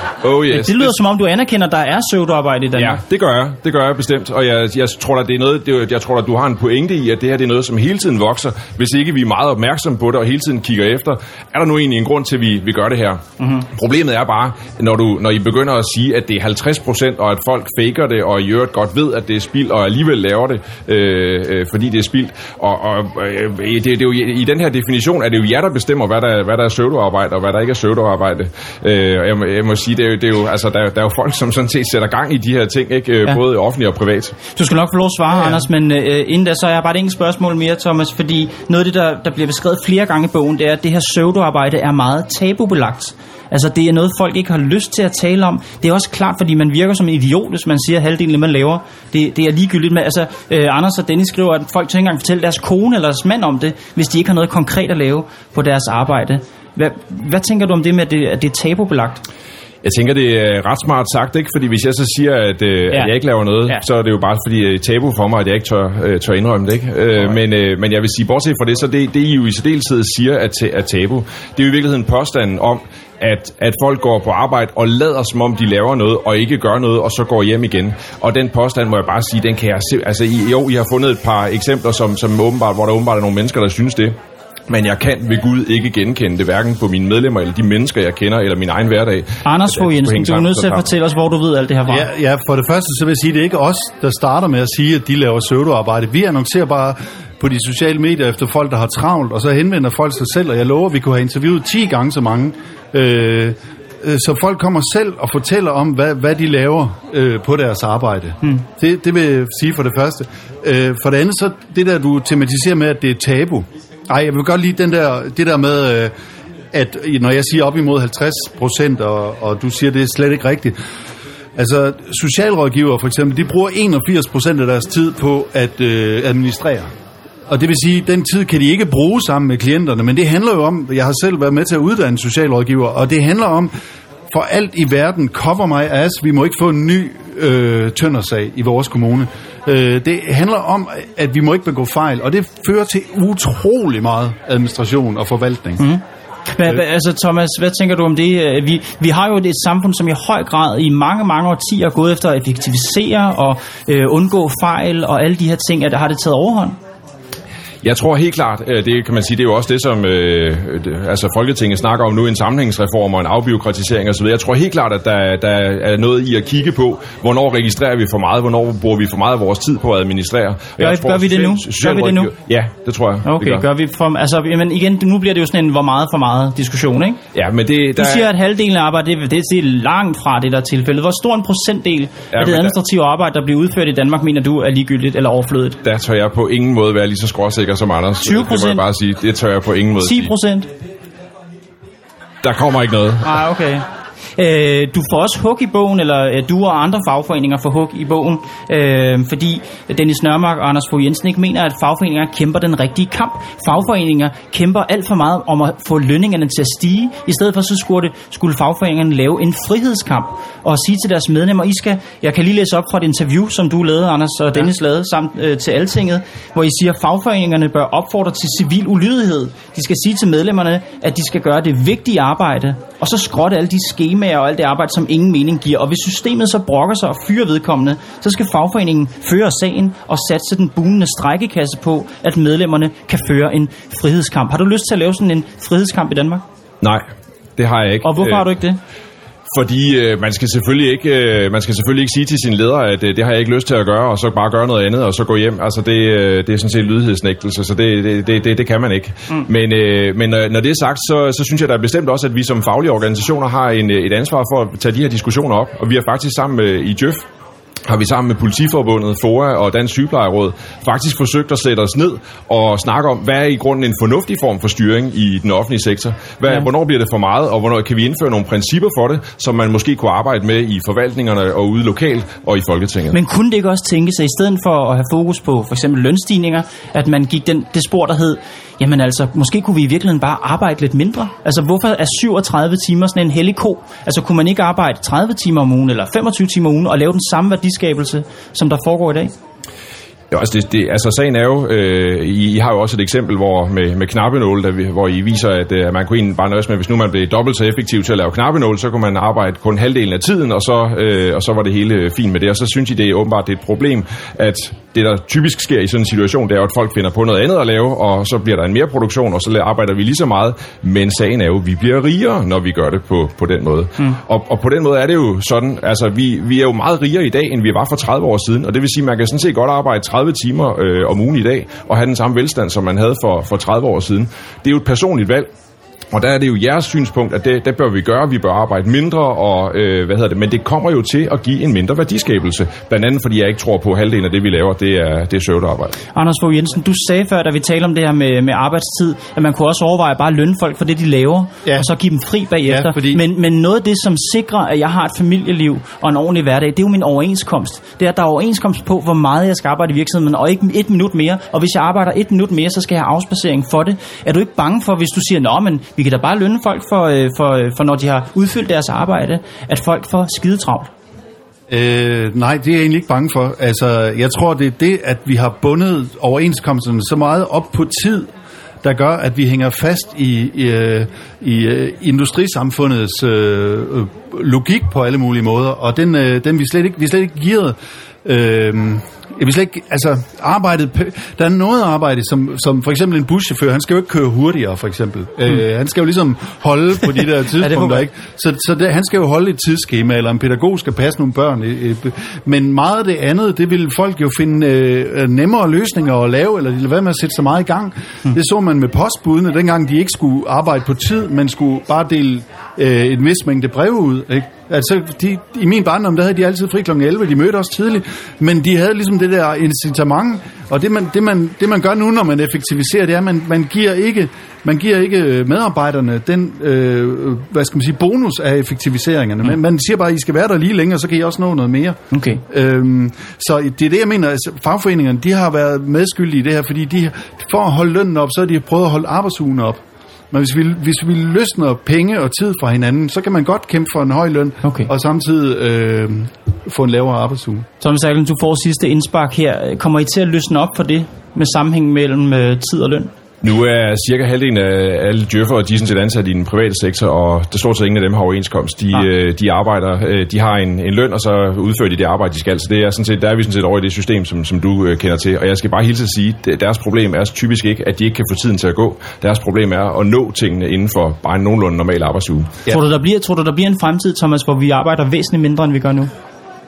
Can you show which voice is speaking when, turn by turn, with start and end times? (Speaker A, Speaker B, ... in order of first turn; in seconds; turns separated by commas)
Speaker A: 0.2-0.9, Speaker B: 0.5-3.0, Speaker A: 2.7-34.4, Speaker B: 13.4-13.7, Speaker B: 34.5-59.2, Speaker A: 59.8-84.2, Speaker A: 84.7-90.9, Speaker B: 89.4-92.1, Speaker C: 91.9-116.1, Speaker C: 116.7-120.8, Speaker C: 121.5-126.9, Speaker C: 127.5-133.7, Speaker C: 134.3-145.8, Speaker B: 145.8-156.8, Speaker A: 157.8-173.6, Speaker B: 170.8-172.3, Speaker B: 173.2-177.2, Speaker A: 177.3-178.3, Speaker B: 177.9-185.8, Speaker A: 182.3-182.7, Speaker A: 185.8-190.3, Speaker B: 188.2-188.8, Speaker B: 190.0-190.7, Speaker A: 192.4-193.3, Speaker B: 193.2-236.4, Speaker A: 237.6-238.5, Speaker B: 238.0-238.8, Speaker A: 239.5-257.2, Speaker A: 257.9-273.2, Speaker B: 273.1-289.3, Speaker A: 290.3-325.5, Speaker A: 326.1-335.9, Speaker B: 336.1-360.9, Speaker C: 342.6-343.2, Speaker C: 361.7-368.3, Speaker C: 368.8-437.6, Speaker B: 387.5-388.1, Speaker B: 422.1-422.4, Speaker B: 434.6-434.9, Speaker B: 437.8-443.1, Speaker A: 443.4-462.5, Speaker B: 462.7-466.1